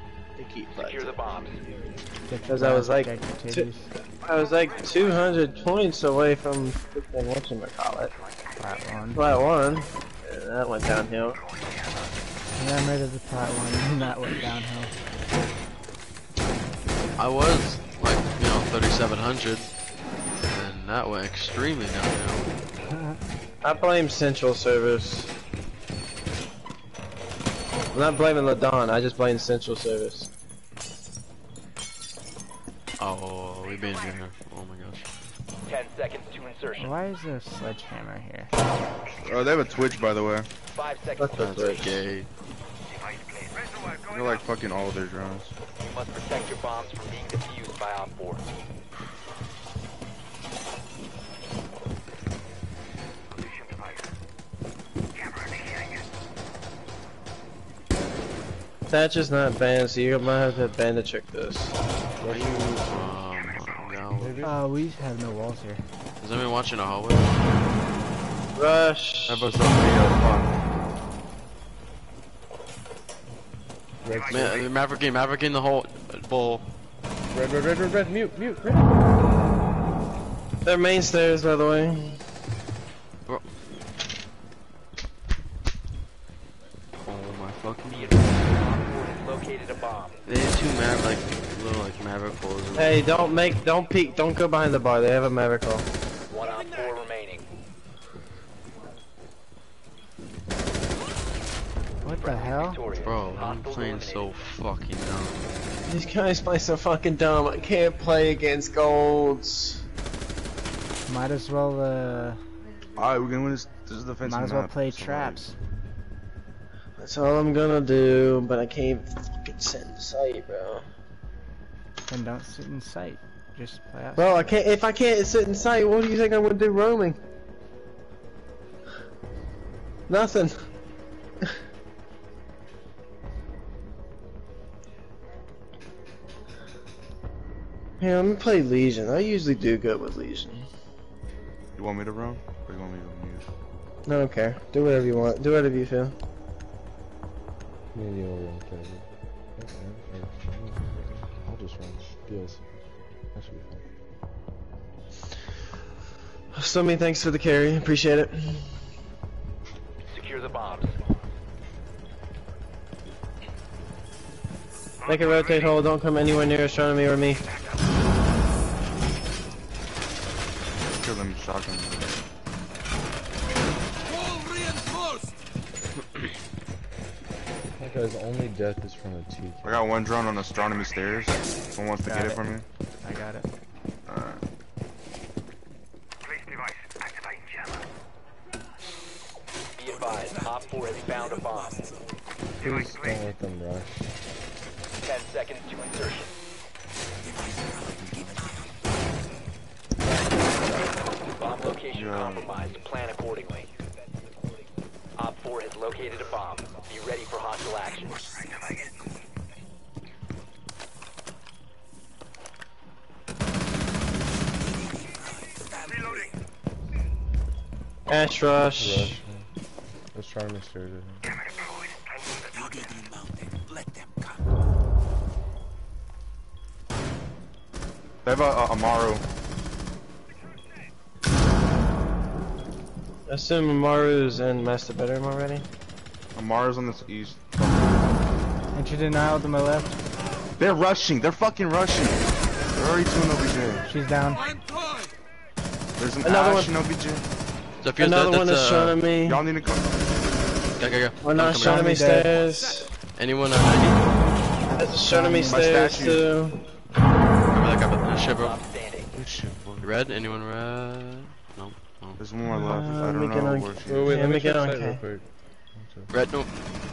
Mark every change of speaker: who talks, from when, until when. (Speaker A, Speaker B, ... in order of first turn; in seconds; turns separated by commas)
Speaker A: 0.3-1.2, Speaker B: 0.7-1.6, Speaker C: 2.3-3.9, Speaker A: 2.5-3.7, Speaker A: 4.2-8.1, Speaker C: 8.6-9.2, Speaker A: 9.1-11.4, Speaker C: 12.5-14.9, Speaker D: 17.2-19.7, Speaker D: 20.5-22.5, Speaker C: 22.9-23.2, Speaker A: 23.6-25.3, Speaker A: 27.9-30.3, Speaker D: 33.0-35.1, Speaker B: 35.6-36.9, Speaker C: 36.8-38.5, Speaker E: 39.2-40.5, Speaker B: 40.7-41.9, Speaker A: 41.2-42.0, Speaker D: 41.4-42.3, Speaker E: 44.1-45.5, Speaker B: 45.8-48.4, Speaker A: 58.9-61.8, Speaker F: 62.2-63.2, Speaker D: 62.3-64.3, Speaker F: 64.1-64.6, Speaker C: 64.4-65.9, Speaker D: 66.2-67.5, Speaker A: 68.5-69.5, Speaker E: 69.3-70.7, Speaker F: 74.0-74.6, Speaker D: 74.3-76.6, Speaker F: 77.3-79.0, Speaker A: 80.6-82.2, Speaker D: 83.2-83.5, Speaker D: 87.0-88.4, Speaker B: 87.9-90.2, Speaker D: 90.2-93.1, Speaker A: 92.8-95.9, Speaker B: 96.3-97.5, Speaker C: 102.0-102.8, Speaker B: 102.1-104.3, Speaker D: 103.0-105.5, Speaker A: 105.8-109.8, Speaker C: 111.1-112.4, Speaker E: 113.0-115.4, Speaker C: 114.2-115.5, Speaker A: 117.0-120.9, Speaker C: 122.1-124.6, Speaker A: 124.2-127.2, Speaker A: 130.1-130.6, Speaker A: 138.0-140.7, Speaker E: 141.8-143.5, Speaker A: 144.1-146.2, Speaker F: 147.9-153.9, Speaker A: 156.5-158.7, Speaker B: 160.1-160.9, Speaker A: 165.1-167.5, Speaker E: 170.9-172.2, Speaker F: 177.8-179.8, Speaker E: 179.6-182.7, Speaker C: 182.0-182.5, Speaker C: 183.0-183.5, Speaker E: 184.1-184.4, Speaker B: 189.8-191.8, Speaker F: 192.6-194.1, Speaker B: 195.0-196.3, Speaker E: 197.9-198.5, Speaker B: 200.6-203.7, Speaker E: 201.9-202.5, Speaker B: 205.2-208.2, Speaker A: 218.1-219.2, Speaker F: 218.6-219.5, Speaker F: 220.1-221.3, Speaker E: 228.2-229.2, Speaker A: 233.3-235.7, Speaker E: 236.3-238.2, Speaker C: 238.7-240.0, Speaker E: 240.6-243.9, Speaker C: 243.9-244.4, Speaker E: 245.9-247.2, Speaker A: 246.2-246.8, Speaker D: 247.8-249.0, Speaker A: 248.0-249.4, Speaker E: 249.2-250.1, Speaker D: 250.8-252.0, Speaker A: 251.2-252.9, Speaker C: 251.5-252.3, Speaker D: 253.2-254.3, Speaker A: 254.7-256.6, Speaker C: 255.1-255.8, Speaker E: 255.5-256.3, Speaker D: 257.5-258.6, Speaker B: 258.3-259.1, Speaker E: 259.1-259.9, Speaker D: 259.8-262.2, Speaker E: 262.2-264.2, Speaker A: 262.4-265.0, Speaker F: 263.9-266.1, Speaker D: 266.1-266.6